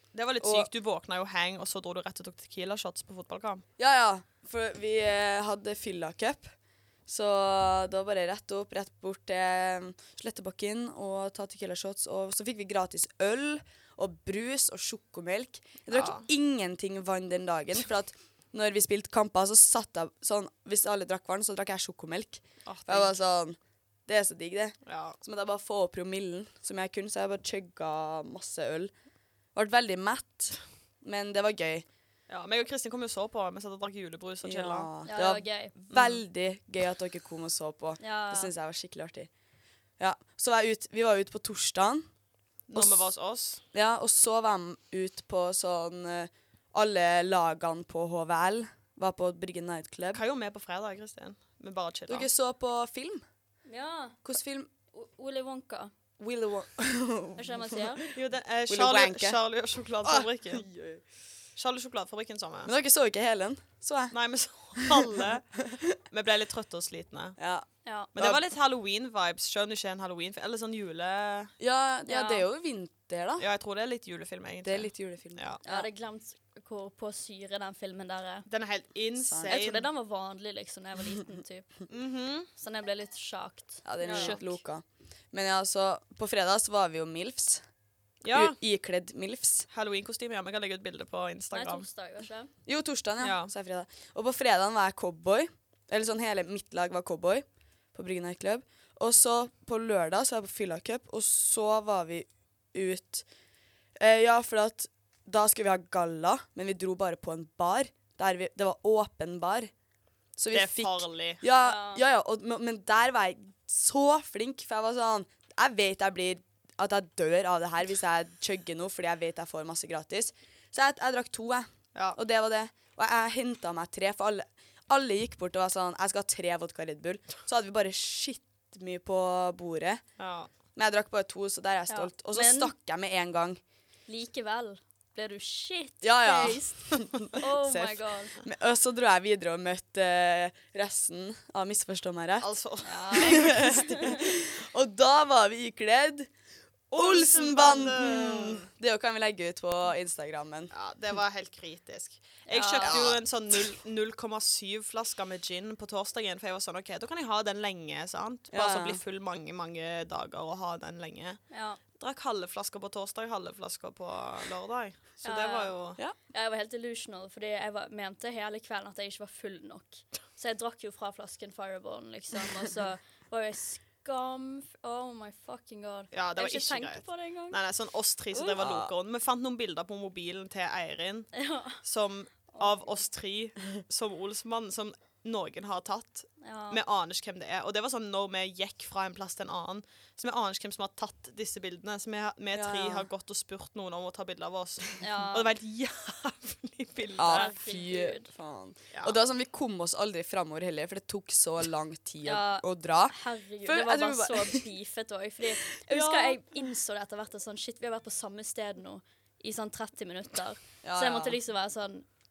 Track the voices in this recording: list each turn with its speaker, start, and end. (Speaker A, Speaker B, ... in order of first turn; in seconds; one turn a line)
Speaker A: 0.1-3.6
Speaker B: 0.4-0.7
Speaker B: 3.8-6.5
Speaker B: 7.1-28.9
Speaker A: 15.9-16.3
Speaker A: 22.7-23.1
Speaker A: 24.9-25.2
Speaker B: 29.6-31.9
Speaker A: 32.3-34.9
Speaker B: 34.4-39.3
Speaker C: 35.1-35.7
Speaker A: 35.9-36.2
Speaker C: 38.0-38.5
Speaker B: 40.0-42.1
Speaker A: 42.7-43.6
Speaker B: 42.7-43.1
Speaker B: 43.7-50.2
Speaker A: 50.1-52.3
Speaker B: 52.1-53.2
Speaker C: 53.7-54.2
Speaker B: 54.2-54.7
Speaker C: 54.9-55.9
Speaker B: 56.2-58.1
Speaker C: 57.4-58.0
Speaker A: 58.1-60.7
Speaker B: 58.7-59.4
Speaker B: 60.0-61.0
Speaker A: 61.6-62.7
Speaker B: 62.6-64.1
Speaker A: 64.1-65.5
Speaker B: 64.8-66.0
Speaker A: 66.1-67.3
Speaker B: 67.4-68.4
Speaker C: 67.8-68.1
Speaker A: 68.1-71.5
Speaker B: 71.6-73.5
Speaker C: 72.1-72.5
Speaker A: 73.4-75.6
Speaker B: 74.6-75.9
Speaker C: 75.6-78.5
Speaker A: 78.5-79.9
Speaker B: 79.2-79.6
Speaker C: 79.5-81.7
Speaker A: 81.9-82.5
Speaker C: 82.5-84.6
Speaker B: 83.8-87.6
Speaker A: 84.0-84.4
Speaker A: 88.2-88.6
Speaker B: 88.3-89.7
Speaker A: 89.7-91.9
Speaker C: 91.5-92.5
Speaker B: 92.7-103.2
Speaker A: 93.2-93.5
Speaker B: 104.0-109.7
Speaker B: 110.4-130.0
Speaker A: 110.5-111.4
Speaker C: 111.5-112.0
Speaker A: 130.2-130.5
Speaker B: 130.8-133.6
Speaker C: 131.9-132.7
Speaker C: 134.1-138.4
Speaker B: 136.0-142.5
Speaker A: 142.4-144.1
Speaker C: 142.8-144.2
Speaker B: 143.1-146.3
Speaker A: 146.9-148.7
Speaker B: 146.9-150.7
Speaker A: 150.7-161.4
Speaker C: 152.5-153.1
Speaker B: 152.8-153.2
Speaker B: 158.5-159.0
Speaker C: 161.5-161.8
Speaker A: 162.0-166.0
Speaker C: 165.2-165.7
Speaker C: 166.3-177.6
Speaker A: 176.1-197.5
Speaker C: 178.3-178.6
Speaker B: 178.6-178.9
Speaker C: 181.3-181.8
Speaker C: 182.5-182.9
Speaker C: 186.4-186.8
Speaker B: 192.5-193.1
Speaker C: 195.0-195.5
Speaker B: 197.2-204.6
Speaker C: 197.2-198.3
Speaker A: 198.9-199.2
Speaker C: 202.2-212.1
Speaker B: 205.8-206.4
Speaker B: 210.8-211.4